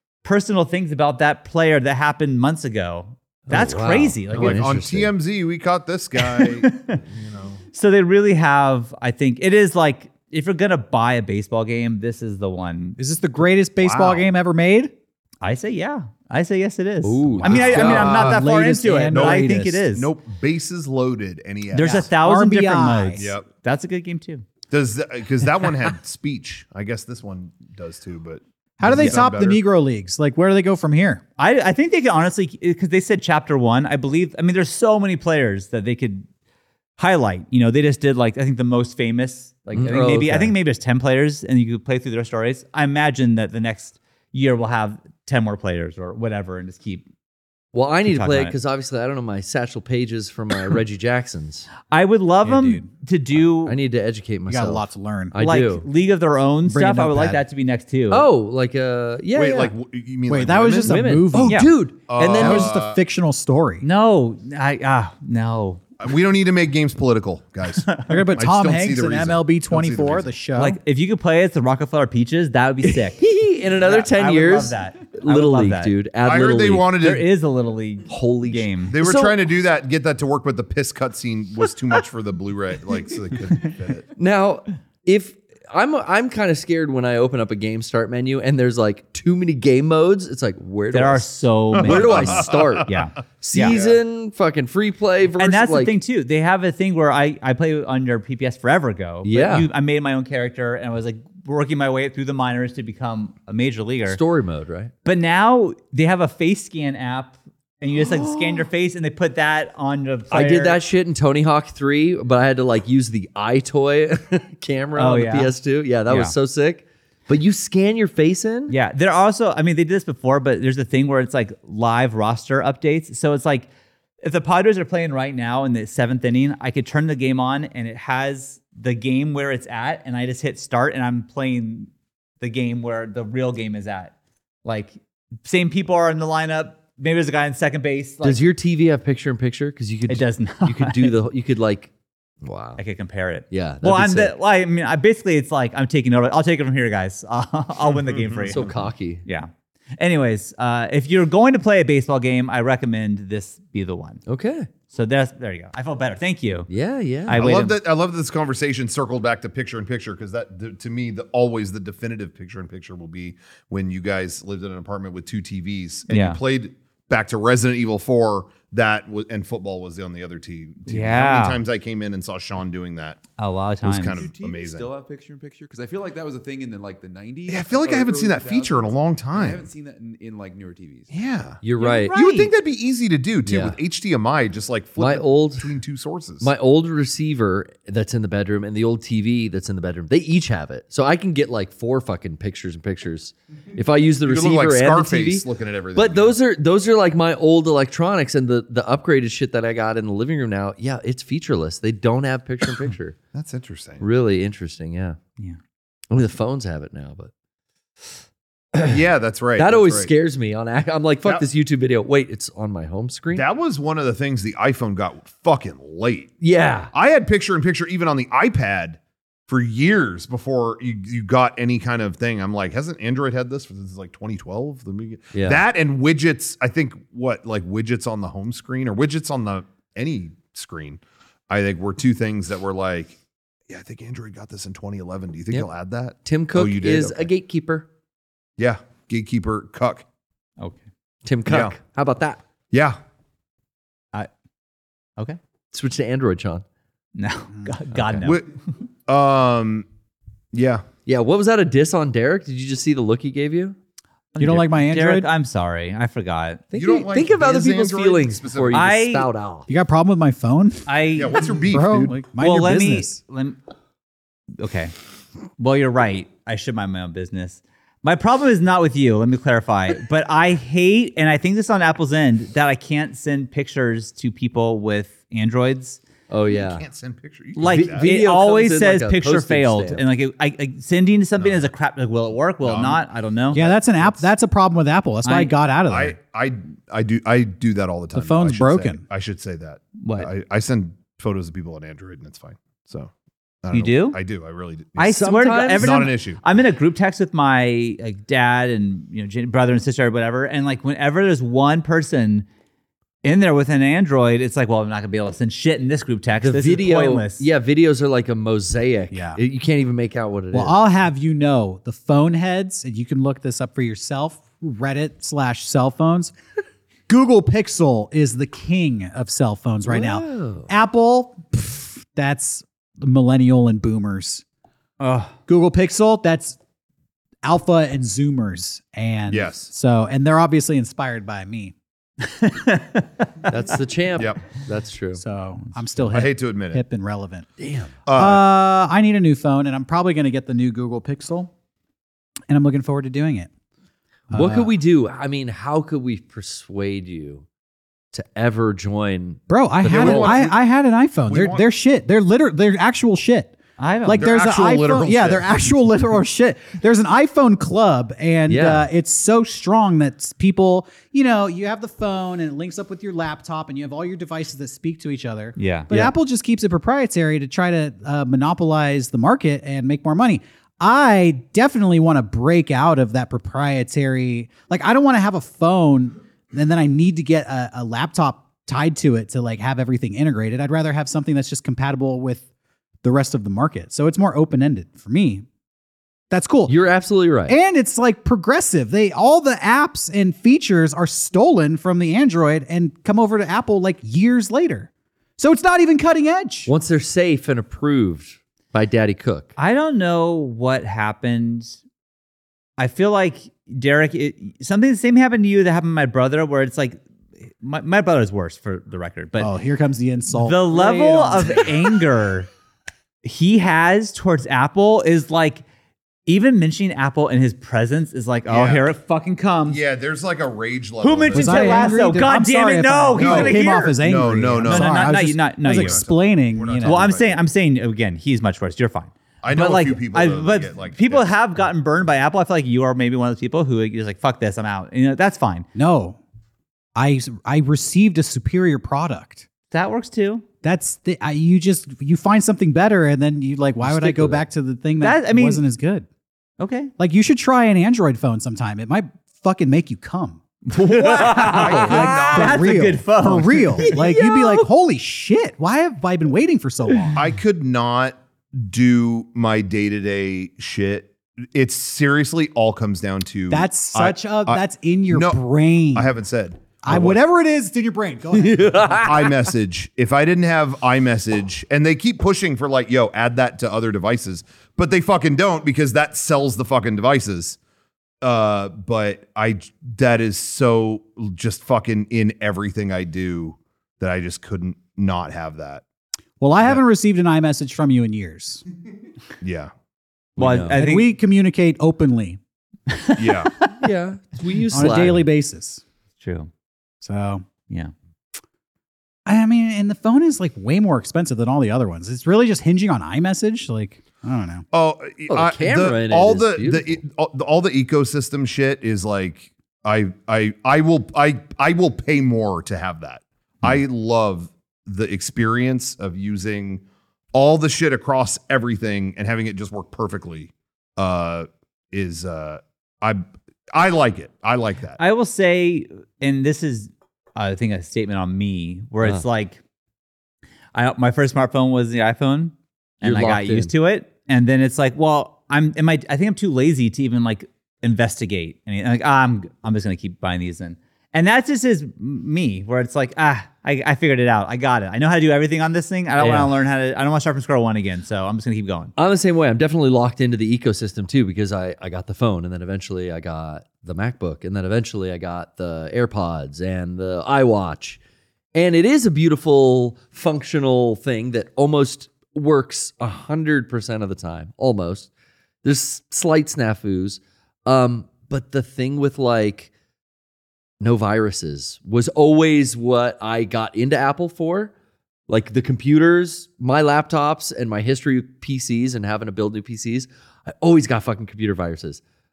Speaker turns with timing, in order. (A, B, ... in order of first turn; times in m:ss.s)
0:00.2-0:04.7 A
0:03.5-0:05.1 B
0:04.3-0:07.6 C
0:06.2-0:07.0 A
0:07.7-0:13.0 A
0:13.0-0:14.9 D
0:13.8-0:14.2 C
0:15.4-0:20.1 A
0:17.0-0:18.2 B
0:17.3-0:19.8 D
0:17.6-0:18.4 C
0:19.1-0:22.1 C
0:21.7-0:24.4 A
0:21.8-0:23.3 D
0:23.2-0:23.5 C
0:24.7-0:29.6 C
0:28.8-0:31.2 D
0:31.4-0:36.3 A
0:37.0-0:47.0 A
0:39.7-0:40.5 B
0:47.7-0:51.7 B
0:48.0-0:48.6 A
0:51.9-0:53.8 A
0:52.4-0:52.8 D
0:53.6-0:55.8 B
0:54.5-0:55.4 D
0:55.4-0:58.3 A
0:56.6-0:57.4 D
0:58.1-0:59.7 B
0:59.3-1:01.1 C
1:00.3-1:03.8 D
1:00.8-1:02.7 B
1:01.4-1:01.7 A
1:02.1-1:03.0 C
1:03.8-1:05.8 A
1:06.0-1:10.3 C
1:07.8-1:08.3 A
1:08.1-1:10.8 D
1:10.6-1:13.2 A
1:13.1-1:16.9 B
1:13.8-1:15.9 A
1:16.2-1:17.3 C
1:17.0-1:18.9 A
1:18.1-1:19.3 B
1:18.9-1:24.0 C
1:24.2-1:35.9 B
1:30.9-1:33.8 A
1:31.7-1:32.9 C
1:33.6-1:34.0 C
1:35.4-1:44.2 A
1:39.2-1:39.7 B
1:44.1-1:44.9 B
1:45.0-1:50.8 A
1:47.9-1:48.7 B
1:50.3-1:58.7 B
1:55.0-1:55.5 A
1:56.1-1:56.3 A
1:58.7-2:03.7 A
2:04.2-2:11.9 A
2:12.4-2:14.1 A
2:14.6-2:18.4 A
2:18.2-2:21.9 B
2:20.1-2:21.2 A
2:22.4-2:22.8 B
2:22.8-2:28.7 A
2:23.5-2:24.3 B
2:28.0-2:28.6 C
2:28.4-2:29.2 B
2:29.2-2:34.2 A
2:34.3-2:34.7 B
2:34.9-2:36.7 A
2:36.7-2:37.4 B
2:37.2-2:37.8 A
2:37.3-2:53.2 C
2:46.1-2:46.4 A
2:50.9-2:51.6 A
2:53.4-2:54.2 A
2:53.8-2:54.9 C
2:54.1-3:01.1 E
2:57.5-2:59.7 C
3:01.1-3:01.6 C
3:01.6-3:02.1 B
3:01.8-3:02.5 A
3:02.1-3:06.5 C
3:03.4-3:03.8 B
3:05.0-3:05.7 B
3:06.4-3:23.2 B
3:14.2-3:16.4 C
3:23.3-3:24.0 C
3:24.0-3:25.2 B
3:26.1-3:27.3 B
3:28.7-3:29.0 B
3:28.8-3:30.1 C
3:29.6-3:33.4 B
3:33.3-3:36.3 C
3:36.4-3:36.9 B
3:36.9-3:53.2 C
3:45.3-3:45.6 B
3:53.7-3:57.3 C
3:56.2-3:57.9 B
3:58.6-4:00.0 C
4:01.2-4:02.4 B
4:01.4-4:01.8 C
4:02.7-4:03.0 C
4:05.7-4:06.6 B
4:07.2-4:08.4 A
4:07.9-4:08.3 B
4:08.2-4:08.5 C
4:09.1-4:09.9 C
4:10.5-4:10.8 C
4:11.0-4:13.8 B
4:14.3-4:16.6 A
4:14.4-4:15.3 D
4:16.7-4:18.8 C
4:16.8-4:19.7 B
4:18.7-4:19.3 A
4:19.7-4:20.9 D
4:20.9-4:21.5 A
4:21.1-4:22.2 C
4:21.7-4:23.2 D
4:22.4-4:23.6 A
4:24.6-4:24.9 A
4:25.6-4:36.0 A
4:36.3-4:36.8 B
4:36.5-4:38.1 C
4:37.6-4:44.2 A
4:37.6-4:40.0 B
4:41.4-4:41.7 C
4:42.6-4:43.0 C
4:43.5-4:46.2 D
4:45.2-4:45.5 A
4:45.9-4:53.1 C
4:48.1-4:49.0 D
4:50.0-4:50.3 A
4:53.6-4:55.1 C
4:53.7-4:54.2 A
4:55.0-5:02.4 A
4:55.1-4:56.0 B
4:55.7-4:56.4 C
5:03.2-5:07.4 A
5:06.4-5:10.8 B
5:09.1-5:09.4 D
5:10.5-5:16.3 D
5:17.1-5:24.4 D
5:19.9-5:20.7 B
5:25.0-5:25.3 A
5:25.5-5:26.6 D
5:27.4-5:31.7 D
5:29.3-5:29.7 C
5:32.3-5:33.2 A
5:33.5-5:35.2 B
5:34.2-5:34.4 C
5:35.2-5:37.5 D
5:36.1-5:36.8 C
5:37.6-5:38.0 B
5:38.0-5:38.4 C
5:38.1-5:41.5 D
5:42.5-5:43.5 D
5:44.3-5:44.7 D
5:44.3-5:47.4 B
5:48.1-5:50.4 B
5:49.5-6:22.4 D
5:49.9-5:50.6 C
5:51.3-5:51.6 C
5:53.8-5:54.2 A
5:54.1-5:55.5 C
5:58.5-5:58.9 B
6:05.6-6:05.9 A
6:23.0-6:25.4 D
6:26.3-6:26.8 D
6:26.7-6:27.6 B
6:27.5-6:36.7 D
6:36.7-6:39.5 B
6:39.6-6:41.8 A
6:42.8-6:49.5 A
6:49.4-6:51.7 D
6:50.3-6:52.5 A
6:53.2-6:55.6 A
6:56.3-6:59.8 A
6:58.5-6:58.9 C
6:59.7-7:01.9 C
7:01.0-7:04.0 A
7:01.3-7:07.0 D
7:03.2-7:05.1 C
7:04.6-7:06.0 A
7:05.7-7:07.4 C
7:06.8-7:15.7 A
7:09.4-7:11.3 C
7:15.7-7:16.2 D
7:16.9-7:19.4 D
7:19.7-7:20.4 A
7:20.6-7:26.0 D
7:23.8-7:24.4 B
7:25.0-7:25.6 A
7:26.6-7:26.9 A
7:27.0-7:37.2 D
7:30.7-7:34.0 A
7:31.0-7:32.2 B
7:31.5-7:32.8 C
7:33.8-7:34.7 B
7:37.1-7:45.4 C
7:43.5-7:46.1 D
7:45.9-7:47.2 C
7:46.8-7:49.1 D
7:48.3-7:49.4 B
7:49.0-7:57.6 C
7:58.2-8:05.8 C
8:06.4-8:08.6 D
8:09.4-8:09.7 C
8:10.4-8:10.8 B
8:10.4-8:11.1 A
8:10.7-8:12.4 D
8:12.9-8:13.7 A
8:13.2-8:13.5 C
8:13.8-8:15.2 B
8:14.7-8:15.8 D
8:16.2-8:16.5 A
8:17.0-8:17.4 D
8:19.2-8:24.6 D
8:24.7-8:45.0 C
8:25.3-8:27.0 B
8:45.0-8:49.6 A
8:50.7-9:08.9 A
8:53.0-8:53.7 B
9:06.2-9:06.5 B
9:09.0-9:18.0 B
9:18.5-9:25.1 B
9:25.6-9:29.7 B
9:30.8-9:34.7 B
9:35.3-9:42.0 B